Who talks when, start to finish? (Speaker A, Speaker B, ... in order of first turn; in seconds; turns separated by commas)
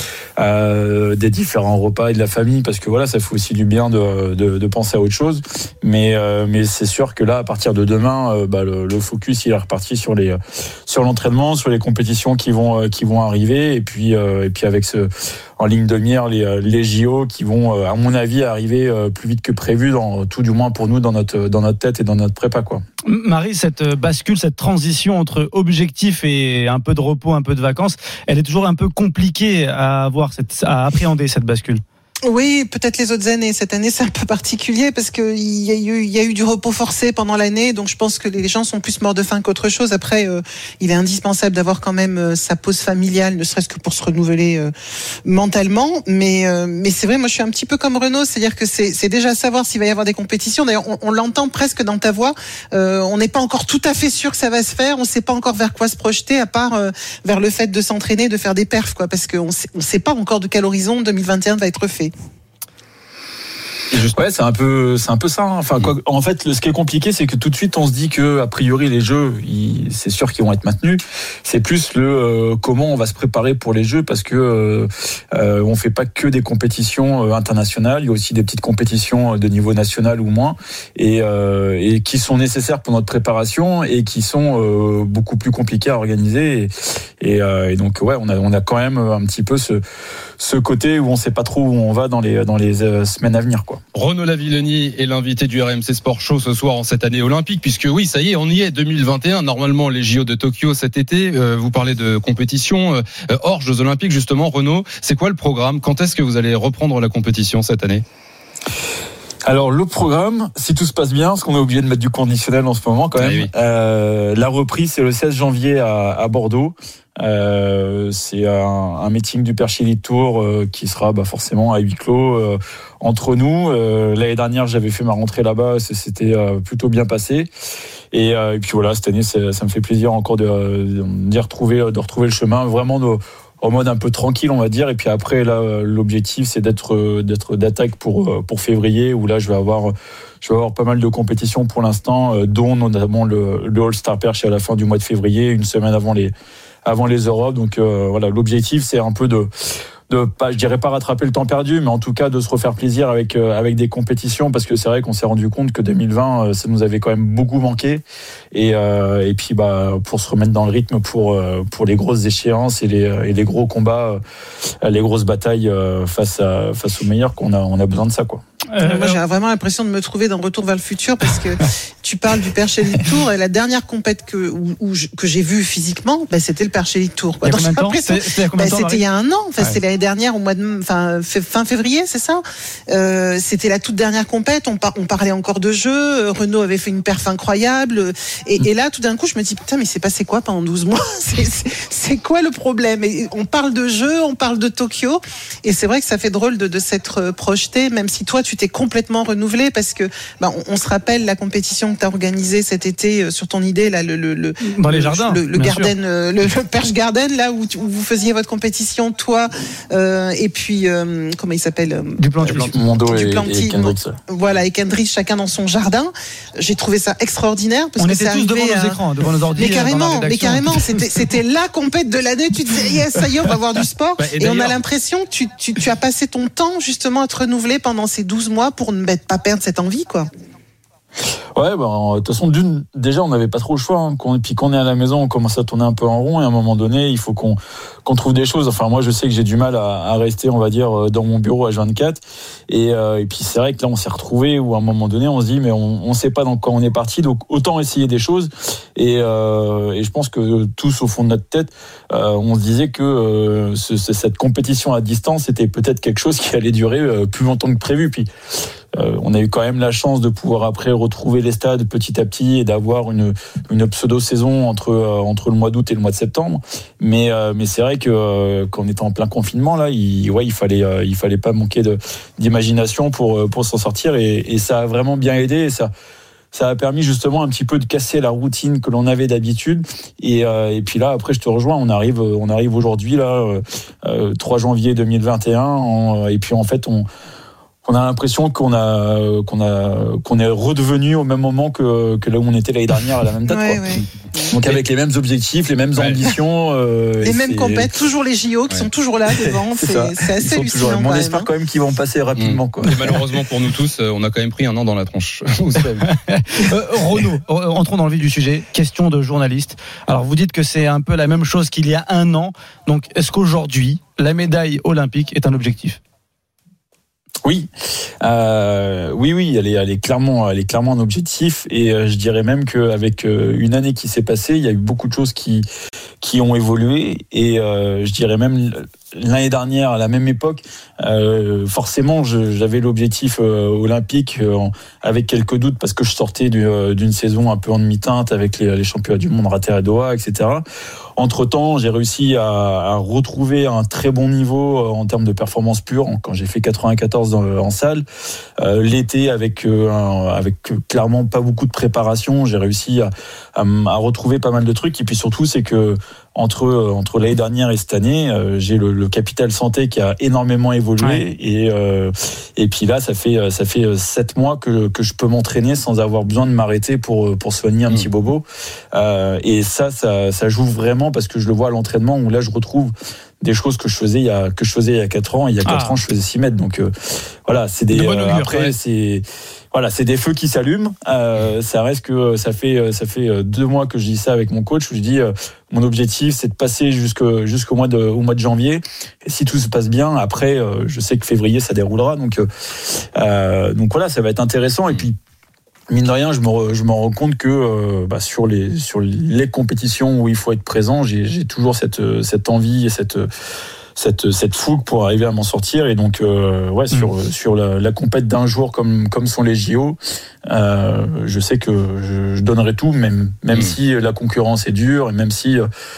Speaker A: 0.4-22.8, Speaker B: 23.1-31.8, Speaker C: 32.2-44.7, Speaker C: 45.2-62.1, Speaker A: 64.1-86.7, Speaker A: 87.2-89.8, Speaker A: 90.4-93.8, Speaker D: 93.9-108.0, Speaker A: 109.5-127.5, Speaker D: 113.2-113.5, Speaker A: 128.1-146.3, Speaker A: 146.8-149.5, Speaker A: 150.1-164.2, Speaker A: 164.8-168.4, Speaker B: 168.7-169.2, Speaker C: 168.8-219.0, Speaker B: 177.4-179.0, Speaker B: 204.6-205.9, Speaker B: 212.2-212.7, Speaker A: 212.4-214.1, Speaker B: 218.0-221.0, Speaker C: 219.5-230.3, Speaker D: 224.2-224.8, Speaker A: 231.6-258.3, Speaker A: 259.0-275.9, Speaker A: 276.5-287.1, Speaker A: 287.8-293.9, Speaker C: 293.5-294.5, Speaker A: 294.5-297.9, Speaker D: 295.9-296.2, Speaker C: 297.2-301.4, Speaker A: 299.8-302.9, Speaker D: 302.4-306.1, Speaker B: 306.3-316.0, Speaker A: 318.2-325.6, Speaker A: 326.2-340.6, Speaker A: 341.2-348.0, Speaker A: 348.6-376.9, Speaker B: 375.6-375.9, Speaker A: 377.5-392.4, Speaker B: 377.9-378.7, Speaker A: 393.0-395.1, Speaker A: 395.9-403.3, Speaker A: 404.0-410.0, Speaker A: 410.5-415.7